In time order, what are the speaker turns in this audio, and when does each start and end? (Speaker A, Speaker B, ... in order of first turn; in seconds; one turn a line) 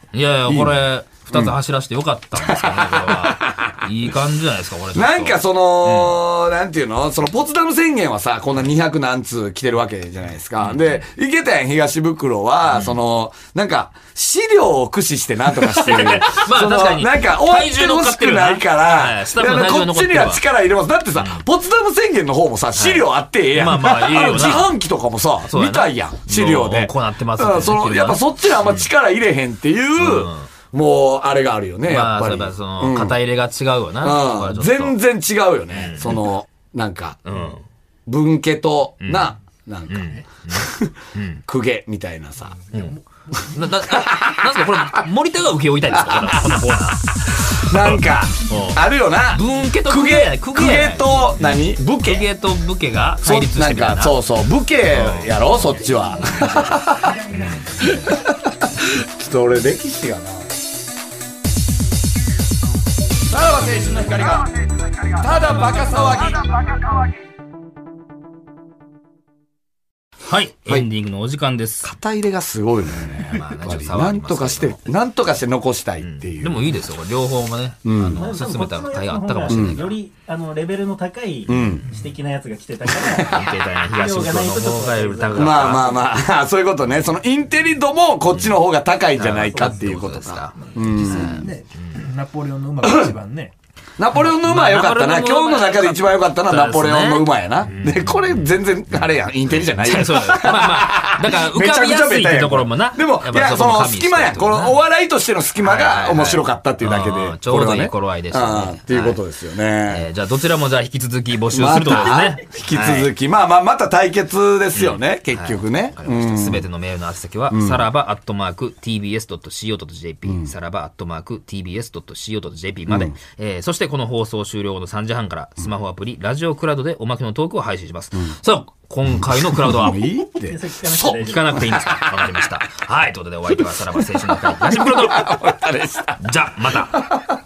Speaker A: 0.1-6.2
Speaker B: 0.5-1.5
Speaker B: 2.4-3.8
Speaker B: 4.9-33.1
Speaker A: 10.6-11.0
Speaker A: 12.7-13.0
Speaker A: 15.7-20.4
Speaker A: 21.2-21.4
Speaker A: 22.8-24.7
Speaker A: 25.5-28.9
Speaker A: 30.0-30.5
Speaker A: 31.9-35.0
Speaker B: 34.0-37.2
Speaker A: 35.7-36.2
Speaker A: 37.2-37.6
Speaker B: 38.1-40.9
Speaker A: 39.0-39.3
Speaker A: 39.9-41.4
Speaker B: 41.5-42.7
Speaker A: 42.7-43.0
Speaker A: 43.5-54.2
Speaker B: 43.9-45.0
Speaker B: 45.9-46.7
Speaker B: 47.4-52.3
Speaker B: 53.2-60.5
Speaker A: 54.9-55.4
Speaker A: 56.2-57.9
Speaker B: 63.3-64.5
Speaker B: 65.0-66.9
Speaker A: 70.3-71.9
Speaker B: 71.8-76.7
Speaker A: 73.0-74.9
Speaker A: 76.0-79.9
Speaker B: 77.8-78.2
Speaker C: 78.1-86.0
Speaker B: 79.5-79.8
Speaker B: 81.5-81.8
Speaker A: 83.2-86.0
Speaker B: 85.3-91.5
Speaker A: 88.3-88.6
Speaker A: 89.2-91.9
Speaker D: 90.8-93.5
Speaker B: 92.8-93.1
Speaker B: 94.0-110.0
Speaker A: 94.1-99.0
Speaker A: 99.6-104.8
Speaker A: 105.6-109.2
Speaker A: 109.9-113.1
Speaker B: 111.5-116.6
Speaker A: 114.7-130.1
Speaker B: 117.5-117.8
Speaker B: 120.2-120.5
Speaker B: 122.9-123.1
Speaker B: 129.2-132.1
Speaker C: 130.4-131.9
Speaker A: 131.0-135.4
Speaker B: 133.7-136.3
Speaker A: 136.2-137.1
Speaker B: 136.9-137.3